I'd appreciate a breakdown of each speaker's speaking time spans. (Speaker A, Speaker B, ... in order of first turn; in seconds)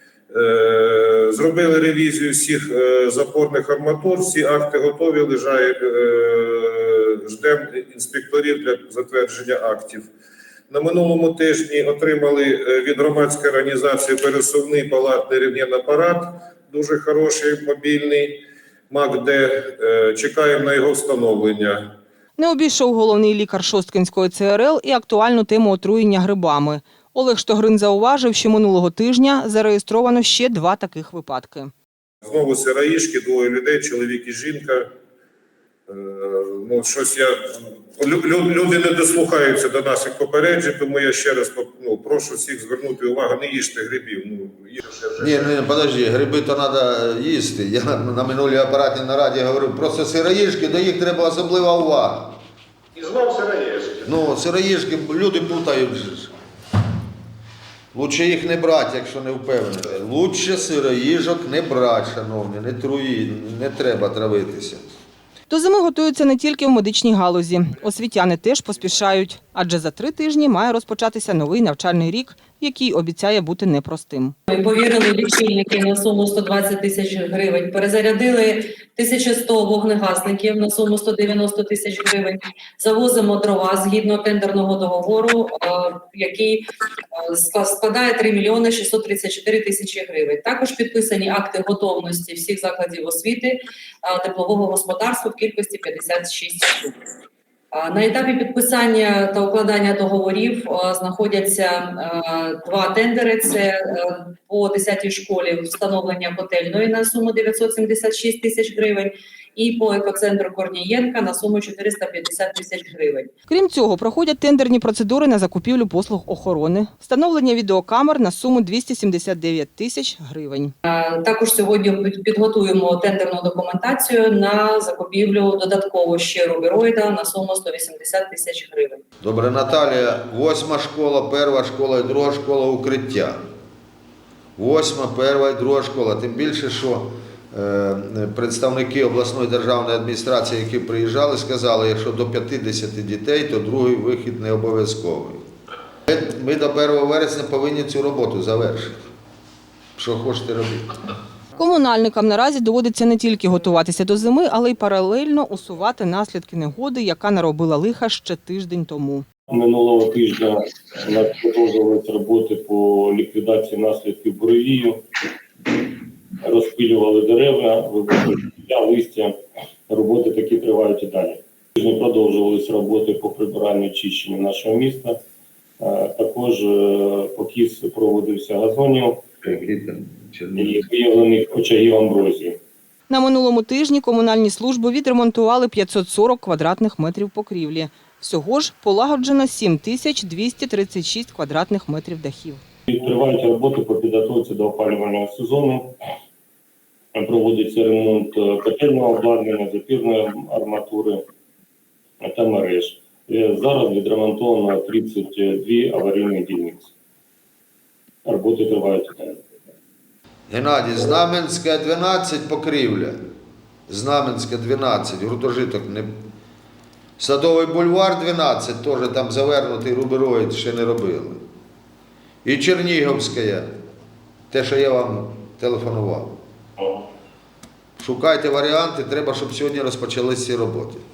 Speaker A: 0.3-10.1, 10.7-18.4, 18.9-21.9, 32.2-34.9, 35.9-45.5, 53.0-54.1
Speaker B: 22.4-31.7, 65.5-74.4, 113.5-120.7, 151.6-159.2, 183.1-192.6
Speaker C: 45.2-52.4, 54.0-56.3, 57.9-64.8, 129.2-133.4, 134.6-145.4, 146.1-149.0, 150.0-150.9, 179.4-180.8, 210.5-213.2, 213.9-216.1, 217.2-221.4, 222.4-223.7, 224.5-226.4, 228.0-231.0
Speaker D: 74.5-86.6, 87.1-96.9, 97.7-113.3, 120.8-129.0
Speaker E: 159.5-165.0, 166.4-169.3, 169.9-175.2, 175.8-179.3, 180.5-182.6, 192.9-195.9, 197.1-201.2, 202.2-206.9, 208.2-209.4